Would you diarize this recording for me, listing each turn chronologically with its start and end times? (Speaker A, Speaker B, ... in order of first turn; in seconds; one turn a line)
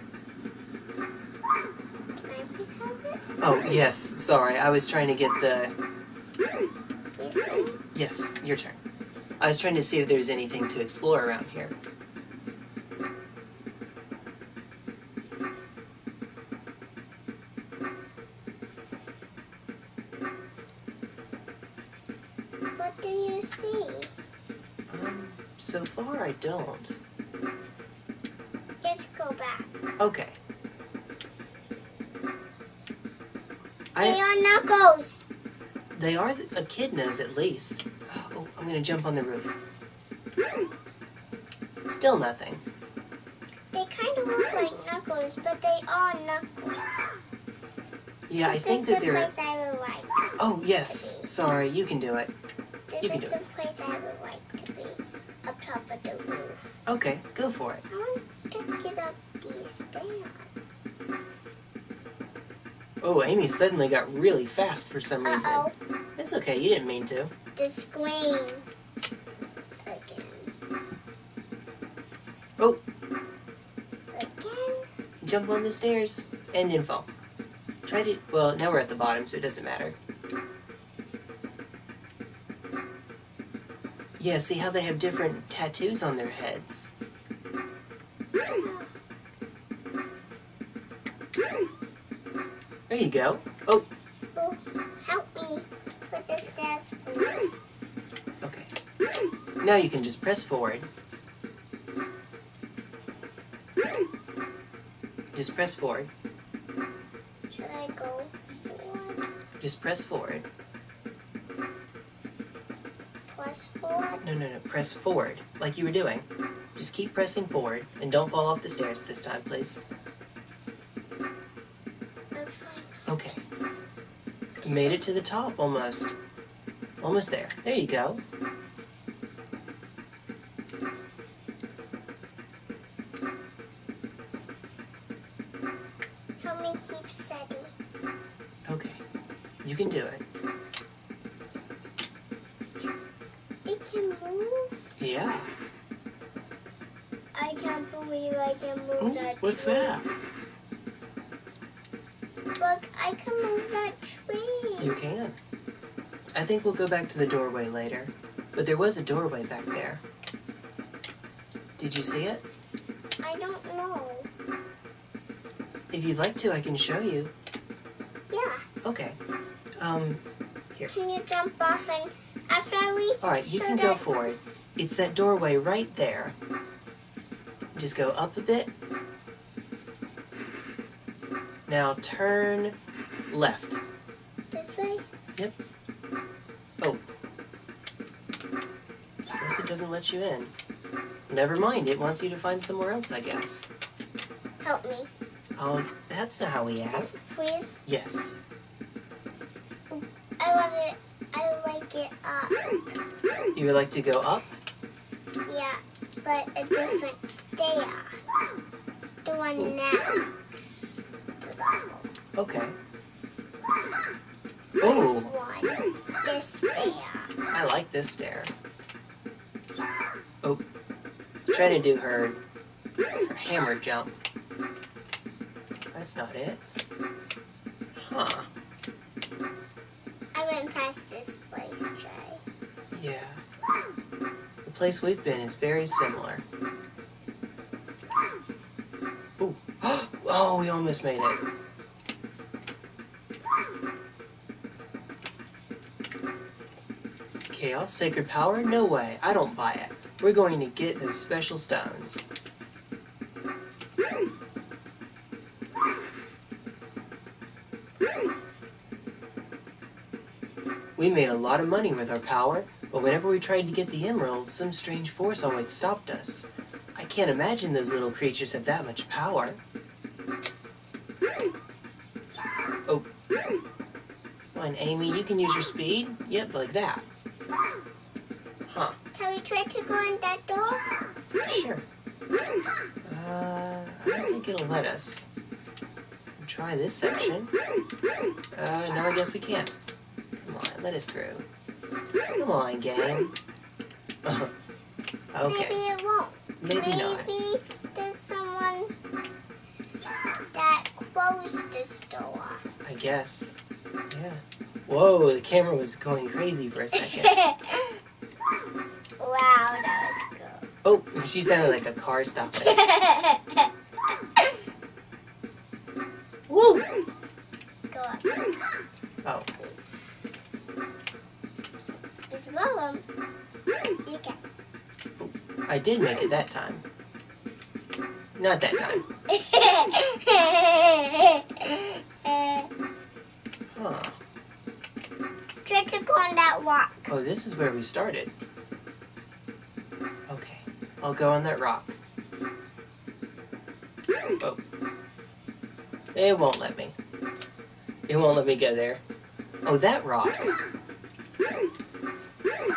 Speaker A: 2.2-3.2
Speaker B: 3.4-5.8
Speaker A: 7.2-7.8
Speaker B: 7.9-8.8
Speaker B: 9.4-11.8
Speaker A: 22.8-24.1
Speaker B: 24.9-27.0
Speaker A: 28.8-30.0
Speaker B: 30.0-30.4
Speaker B: 34.0-34.2
Speaker A: 34.0-35.3
Speaker B: 35.9-39.6
Speaker B: 41.9-42.6
Speaker A: 43.7-47.2
Speaker B: 48.3-49.3
Speaker A: 48.5-50.3
Speaker B: 50.4-52.3
Speaker A: 50.9-51.3
Speaker A: 52.9-56.8
Speaker B: 53.0-53.4
Speaker B: 56.9-57.8
Speaker A: 57.9-61.0
Speaker B: 63.0-67.3
Speaker A: 65.2-65.7
Speaker A: 67.6-68.7
Speaker A: 69.8-70.5
Speaker A: 74.1-74.9
Speaker B: 75.2-77.1
Speaker B: 77.8-80.0
Speaker B: 84.2-86.9
Speaker A: 88.5-88.9
Speaker B: 92.9-93.9
Speaker A: 94.4-97.6
Speaker B: 98.4-98.7
Speaker B: 99.6-100.9
Speaker B: 105.3-106.1
Speaker A: 107.5-109.2
Speaker B: 109.6-110.5
Speaker A: 113.3-114.2
Speaker B: 114.2-116.2
Speaker B: 116.8-119.8
Speaker A: 122.3-123.1
Speaker B: 123.1-123.4
Speaker B: 124.6-126.2
Speaker B: 127.0-128.2
Speaker A: 136.4-137.7
Speaker B: 138.7-139.0
Speaker B: 139.6-140.2
Speaker A: 143.7-144.8
Speaker B: 145.0-145.5
Speaker A: 147.3-150.0
Speaker B: 149.0-150.1
Speaker A: 152.6-155.0
Speaker B: 154.8-155.4
Speaker B: 156.3-160.0
Speaker B: 161.8-162.4
Speaker A: 163.2-164.3
Speaker B: 165.9-167.3
Speaker A: 168.3-168.7
Speaker B: 168.8-169.2
Speaker B: 169.8-170.2
Speaker A: 170.9-174.0
Speaker B: 173.2-176.4
Speaker B: 177.7-178.7
Speaker B: 181.7-182.8
Speaker B: 183.3-183.8
Speaker A: 184.5-185.0
Speaker B: 189.4-190.5
Speaker B: 191.3-193.7
Speaker A: 194.6-195.1
Speaker B: 195.6-197.1
Speaker A: 196.9-197.8
Speaker B: 197.9-198.4
Speaker A: 199.9-202.6
Speaker B: 203.6-204.5
Speaker A: 205.5-208.2
Speaker A: 209.2-212.1
Speaker B: 212.3-212.8
Speaker B: 214.8-215.3
Speaker A: 214.8-217.3
Speaker B: 217.5-218.5
Speaker B: 221.4-222.4
Speaker B: 223.2-224.2
Speaker B: 225.9-226.6
Speaker B: 228.0-228.5
Speaker A: 230.3-232.4
Speaker B: 232.9-233.4
Speaker B: 234.6-236.4
Speaker B: 239.4-241.4
Speaker B: 247.5-252.3
Speaker B: 261.0-269.6
Speaker B: 274.5-277.0
Speaker B: 278.7-279.0
Speaker A: 279.1-281.0
Speaker B: 281.5-281.9
Speaker B: 283.1-285.3
Speaker B: 286.4-287.5
Speaker B: 288.5-289.8
Speaker B: 290.4-291.4
Speaker B: 292.3-293.3
Speaker B: 294.2-294.5
Speaker B: 295.3-295.8
Speaker A: 295.5-298.9
Speaker B: 296.6-297.3
Speaker A: 300.5-302.6
Speaker B: 302.8-303.6
Speaker B: 304.1-307.3
Speaker A: 307.1-307.9
Speaker A: 309.2-310.6
Speaker B: 310.8-312.8
Speaker A: 312.6-313.7
Speaker B: 316.5-316.9
Speaker A: 317.9-318.3
Speaker A: 319.6-319.9
Speaker A: 322.3-323.0
Speaker A: 324.1-324.4
Speaker B: 325.2-326.8
Speaker B: 328.4-329.1
Speaker A: 329.3-332.7
Speaker B: 333.7-334.2
Speaker A: 335.6-337.1
Speaker B: 337.1-338.3
Speaker B: 340.3-342.0
Speaker B: 346.1-347.0
Speaker B: 348.1-349.0
Speaker B: 349.6-350.6